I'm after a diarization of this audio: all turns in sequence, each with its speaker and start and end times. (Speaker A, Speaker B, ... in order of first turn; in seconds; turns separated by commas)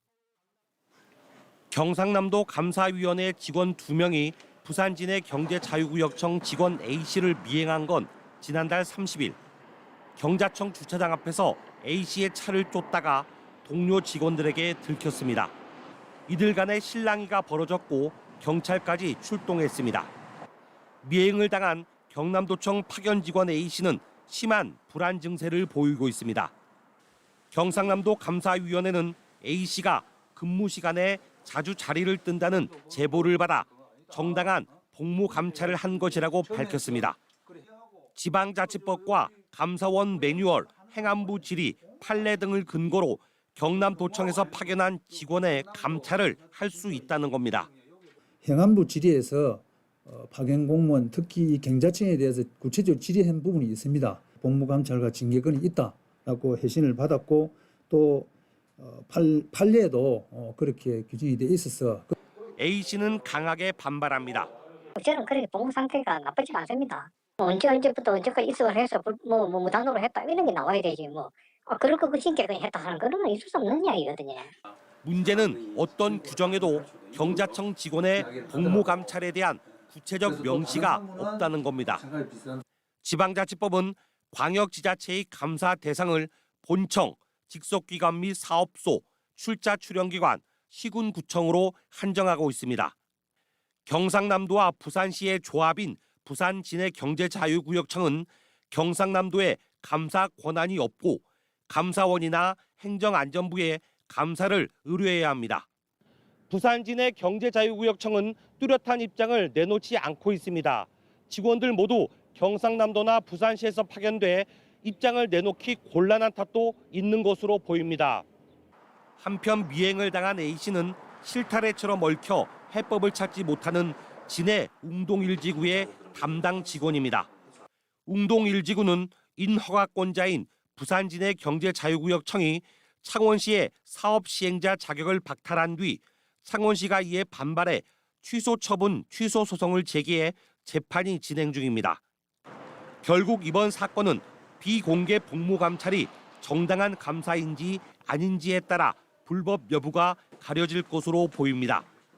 Speaker A: 1.7-9.4, Speaker A: 10.2-15.5, Speaker A: 16.3-20.1, Speaker A: 21.0-26.5, Speaker A: 27.5-37.2, Speaker A: 38.2-47.7, Speaker B: 48.4-62.1, Speaker A: 62.6-64.5, Speaker C: 65.0-74.5, Speaker A: 75.0-82.0, Speaker B: 76.3-77.2, Speaker B: 78.2-79.0, Speaker B: 80.2-82.6, Speaker A: 83.0-93.0, Speaker A: 93.9-105.7, Speaker A: 106.5-118.3, Speaker A: 119.2-127.3, Speaker A: 128.1-142.0, Speaker A: 143.0-151.9